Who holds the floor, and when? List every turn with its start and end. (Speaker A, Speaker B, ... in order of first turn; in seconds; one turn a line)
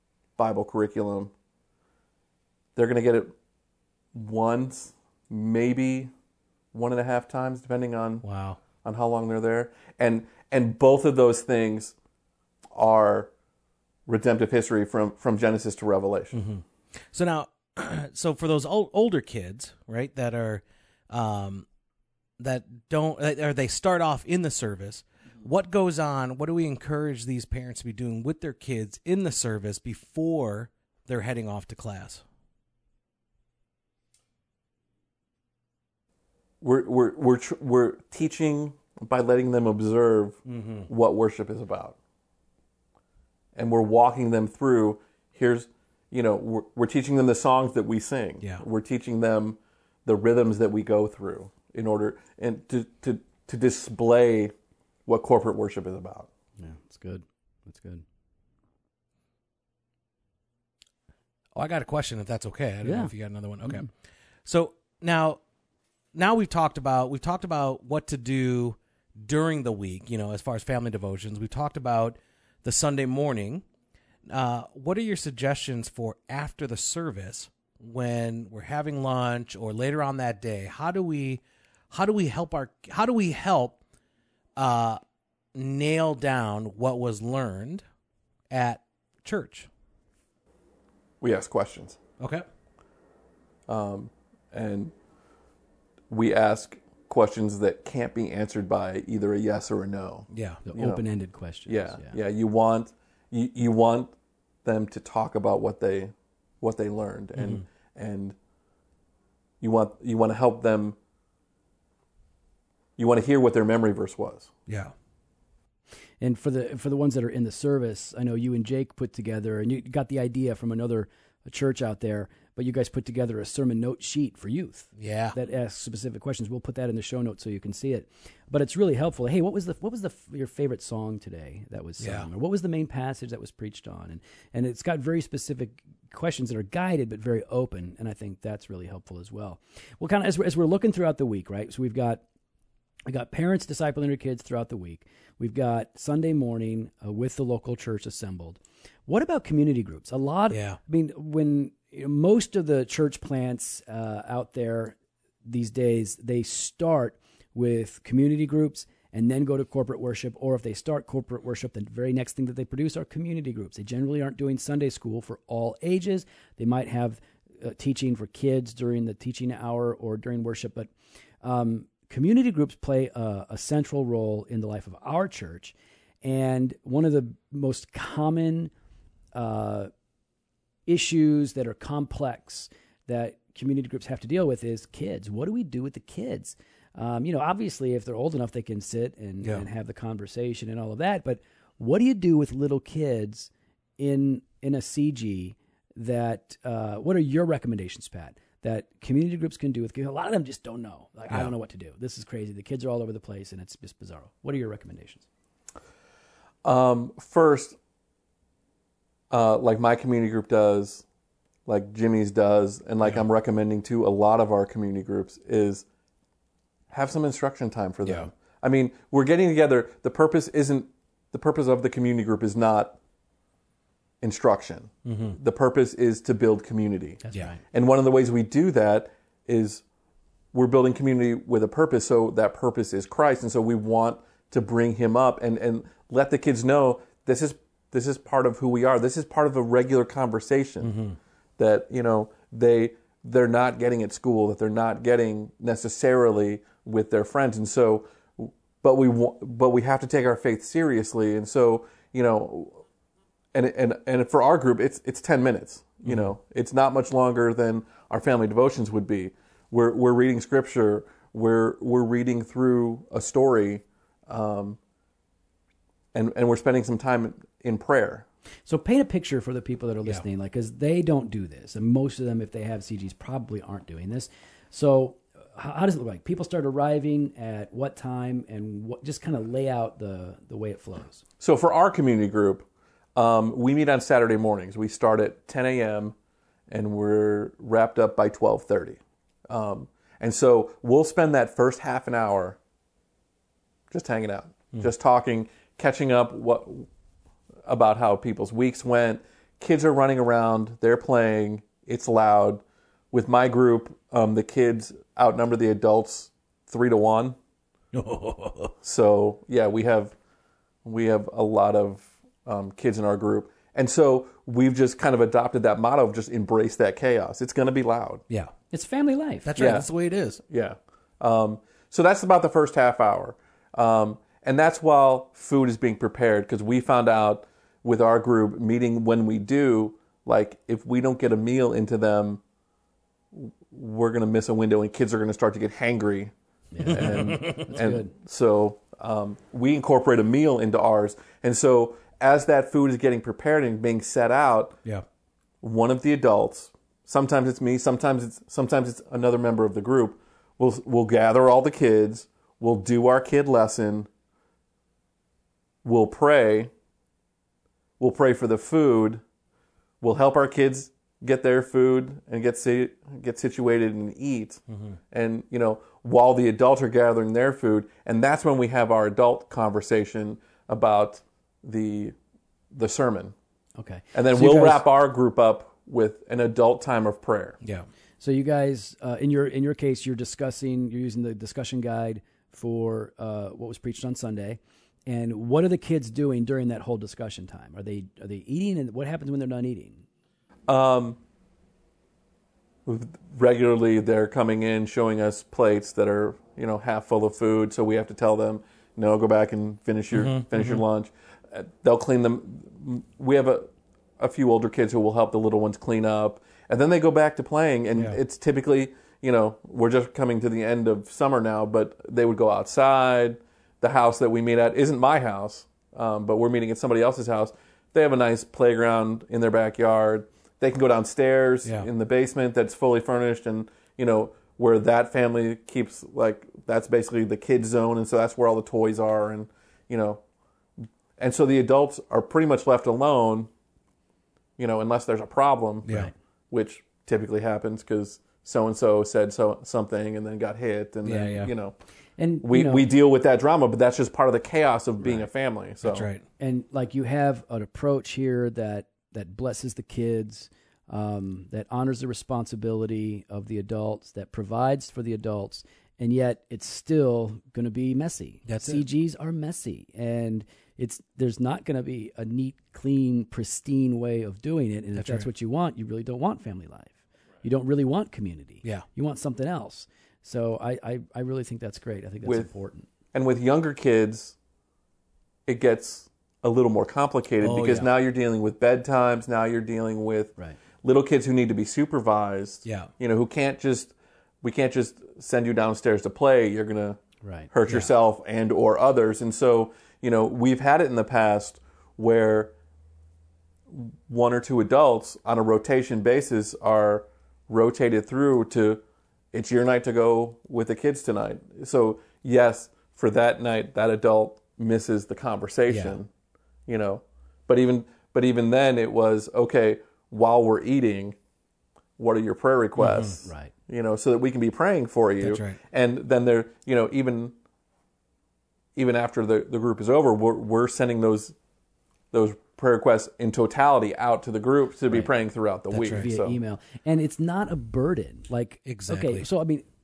Speaker A: 0.4-1.3
Speaker A: 2.8-3.3
Speaker A: 4.1-6.1
Speaker A: 6.7-8.2
Speaker B: 8.2-8.6
Speaker A: 8.8-11.9
Speaker A: 12.7-13.3
Speaker A: 14.1-16.4
Speaker B: 16.3-21.7
Speaker B: 22.4-32.2
Speaker A: 36.6-42.0
Speaker B: 40.5-40.9
Speaker A: 43.5-54.5
Speaker A: 55.1-56.3
Speaker C: 56.6-58.0
Speaker B: 61.5-63.9
Speaker C: 62.8-63.1
Speaker B: 64.5-65.4
Speaker B: 66.1-73.6
Speaker B: 74.3-83.8
Speaker B: 84.6-85.0
Speaker B: 85.5-87.8
Speaker B: 88.5-89.7
Speaker A: 91.2-92.0
Speaker B: 92.2-92.5
Speaker A: 93.7-94.9
Speaker A: 96.1-101.0
Speaker B: 100.3-100.6
Speaker C: 100.7-102.2
Speaker A: 101.7-104.1
Speaker A: 104.6-108.4
Speaker B: 107.4-107.6
Speaker A: 109.6-111.0
Speaker A: 113.0-114.5
Speaker B: 114.7-114.9
Speaker C: 116.2-142.2
Speaker B: 125.0-125.4
Speaker B: 132.0-132.3
Speaker C: 143.1-170.9
Speaker B: 150.5-150.8
Speaker C: 171.4-178.7
Speaker C: 179.3-179.9
Speaker C: 180.9-205.3
Speaker A: 206.6-207.8
Speaker A: 209.3-211.0
Speaker A: 211.7-215.8
Speaker A: 216.9-223.0
Speaker B: 218.1-218.3
Speaker A: 224.2-229.8
Speaker B: 225.1-225.4
Speaker C: 227.2-227.6
Speaker A: 230.5-240.9
Speaker B: 240.8-241.2
Speaker A: 241.6-252.8
Speaker A: 253.5-264.8
Speaker B: 256.1-256.3
Speaker A: 266.1-268.3
Speaker C: 268.7-281.2
Speaker A: 281.4-282.6
Speaker A: 283.2-286.1
Speaker A: 286.7-292.6
Speaker A: 293.9-296.9
Speaker A: 297.6-307.4
Speaker B: 307.9-308.7
Speaker A: 308.8-310.1
Speaker A: 310.8-318.2
Speaker C: 318.7-319.5
Speaker B: 319.4-320.4
Speaker A: 319.6-319.9
Speaker A: 320.5-332.4
Speaker A: 333.3-336.3
Speaker C: 336.8-338.1
Speaker B: 336.8-337.8
Speaker A: 336.9-344.8
Speaker A: 345.6-354.1
Speaker A: 355.8-356.7
Speaker A: 358.0-359.2
Speaker A: 360.0-372.1
Speaker A: 372.7-373.3
Speaker C: 373.8-374.8
Speaker A: 374.1-377.6
Speaker C: 378.2-390.0
Speaker A: 390.7-391.2
Speaker A: 392.9-430.2
Speaker B: 400.1-400.8
Speaker A: 431.2-433.5
Speaker A: 434.6-435.9
Speaker B: 435.9-436.1
Speaker A: 436.5-441.8
Speaker B: 441.0-441.5
Speaker C: 442.2-442.9
Speaker A: 442.4-446.1
Speaker B: 445.8-446.2
Speaker C: 446.4-472.9
Speaker B: 458.5-458.9
Speaker B: 465.0-465.3
Speaker A: 473.1-474.4
Speaker A: 475.5-487.0
Speaker B: 477.4-477.9
Speaker B: 482.6-482.9
Speaker C: 487.2-487.5
Speaker A: 487.5-492.5
Speaker A: 493.7-506.1
Speaker B: 505.7-506.0
Speaker A: 506.7-511.2
Speaker A: 512.0-517.4
Speaker B: 512.8-513.2
Speaker C: 513.2-513.5
Speaker B: 515.2-515.6
Speaker A: 518.8-521.4
Speaker A: 522.1-526.4
Speaker B: 525.7-526.1
Speaker C: 525.8-529.6
Speaker B: 528.7-529.3